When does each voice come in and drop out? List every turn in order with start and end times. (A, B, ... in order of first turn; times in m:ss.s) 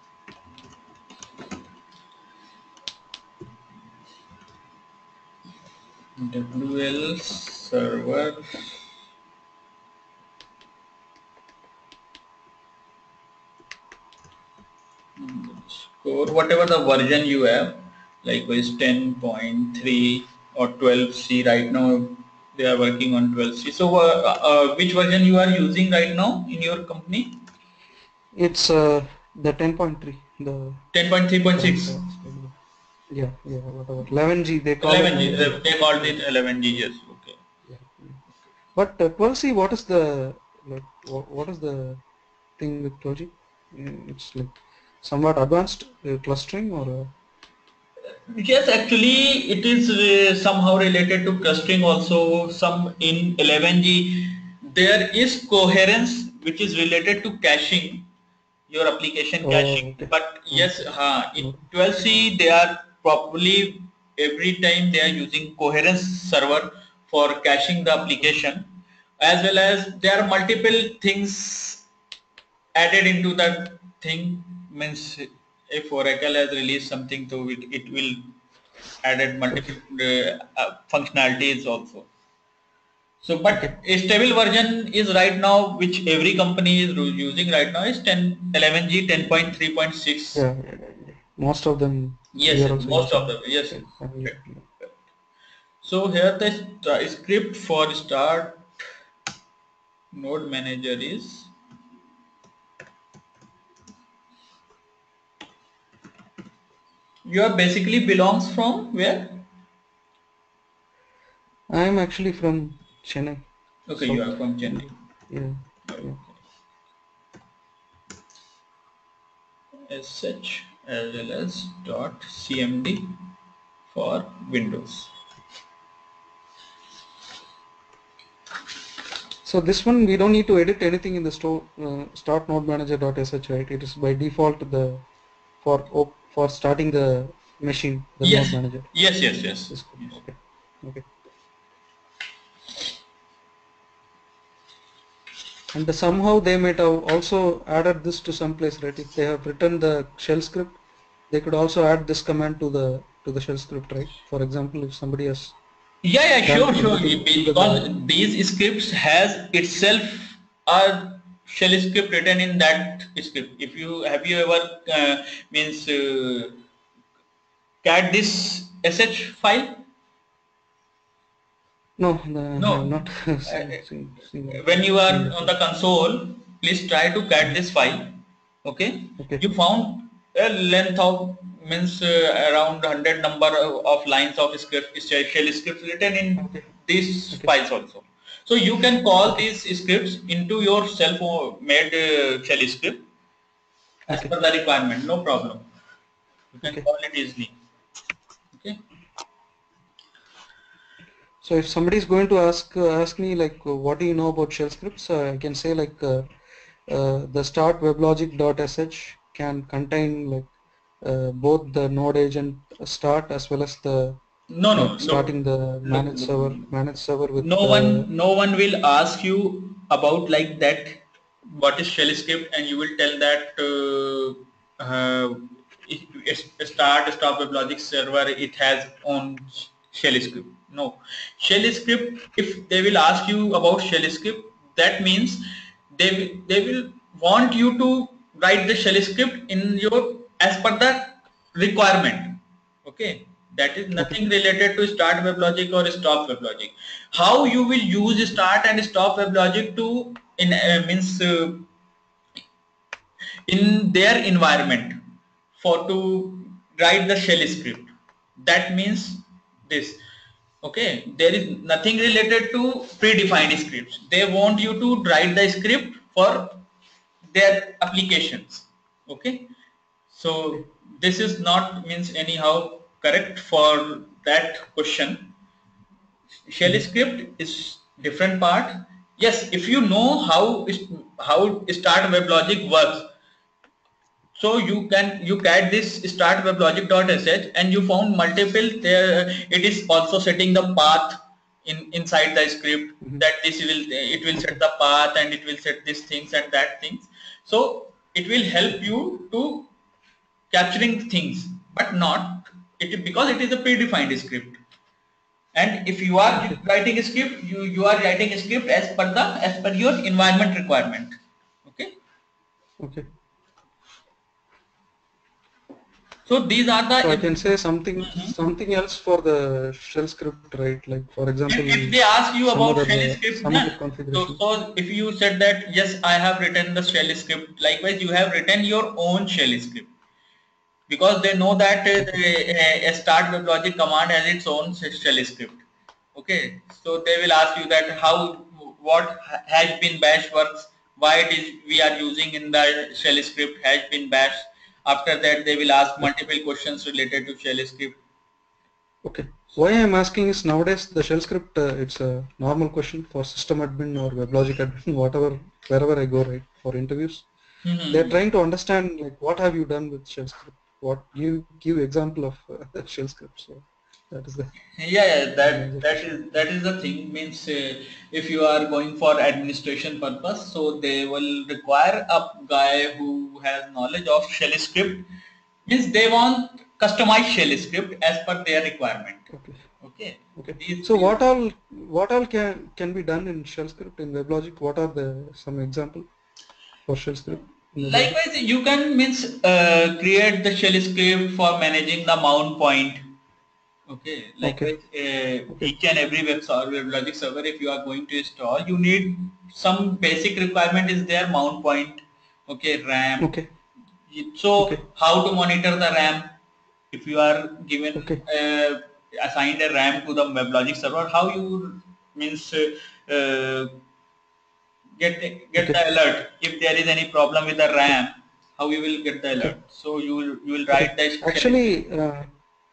0:06.2-0:08.8 A
0:15.2-0:27.4 A
0:28.3-0:30.8 B
0:30.9-0:32.0 A
0:31.6-0:32.5 B
0:33.1-0:36.2 B
0:34.8-0:37.4 A
0:37.7-0:38.2 B
0:38.7-0:42.0 B
0:42.6-0:47.1 B
0:48.3-0:58.1 A
0:58.7-1:11.8 A
0:59.4-1:00.7 B
1:12.7-1:18.3 A
1:19.0-1:22.1 A
1:23.2-1:30.4 A
1:30.3-1:34.6 B
1:32.3-1:34.8 A
1:35.8-1:38.7 A
1:40.1-1:41.5 A
1:47.2-1:49.4 A
1:51.7-1:53.4 B
1:53.9-1:54.9 A
1:54.0-1:56.2 B
1:55.9-1:56.2 A
1:59.9-2:03.2 A
2:03.9-2:05.1 A
2:09.4-2:15.0 B
2:15.6-2:18.9 B
2:18.2-2:20.2 A
2:19.7-2:21.0 B
2:25.7-2:35.5 B
2:36.0-2:46.6 A
2:36.4-2:37.9 B
2:47.8-2:49.8 A
2:52.0-2:55.5 B
2:52.6-2:52.9 A
2:53.4-2:53.8 A
2:54.5-3:13.0 A
3:06.4-3:06.6 B
3:14.1-3:15.6 A
3:16.5-3:17.5 A
3:18.5-3:18.8 A
3:21.4-3:26.3 B
3:26.9-3:30.5 B
3:31.0-3:34.2 B
3:34.5-3:35.3 A
3:34.7-3:38.1 B
3:35.8-3:36.6 A
3:37.4-4:11.6 A
4:04.0-4:04.2 B
4:13.5-4:15.0 A
4:15.6-4:20.0 A
4:20.6-4:26.6 A
4:27.3-4:29.5 A
4:30.1-4:35.3 A
4:36.5-4:43.1 A
4:44.4-4:59.7 A
5:00.5-5:04.6 A
5:05.5-5:11.9 A
5:06.3-5:06.6 B
5:12.8-5:13.1 B
5:16.2-5:17.3 A
5:17.0-5:22.0 B
5:18.0-5:18.3 A
5:21.5-5:29.9 A
5:22.5-5:24.4 B
5:30.9-5:35.6 A
5:36.1-5:48.0 A
5:49.0-5:57.2 B
5:57.6-5:58.2 A
5:57.9-6:04.5 B
6:04.8-6:15.1 A
6:05.4-6:06.1 B
6:15.6-6:19.3 A
6:19.3-6:19.6 B
6:19.8-6:21.2 A
6:20.4-6:26.1 B
6:26.9-6:28.2 B
6:27.8-6:33.0 A
6:33.9-6:43.3 A
6:34.4-6:34.7 B
6:43.2-6:43.5 B
6:44.1-6:46.3 A
6:46.9-6:53.8 A
6:48.0-6:48.2 B
6:55.0-7:01.8 A
7:00.7-7:02.3 B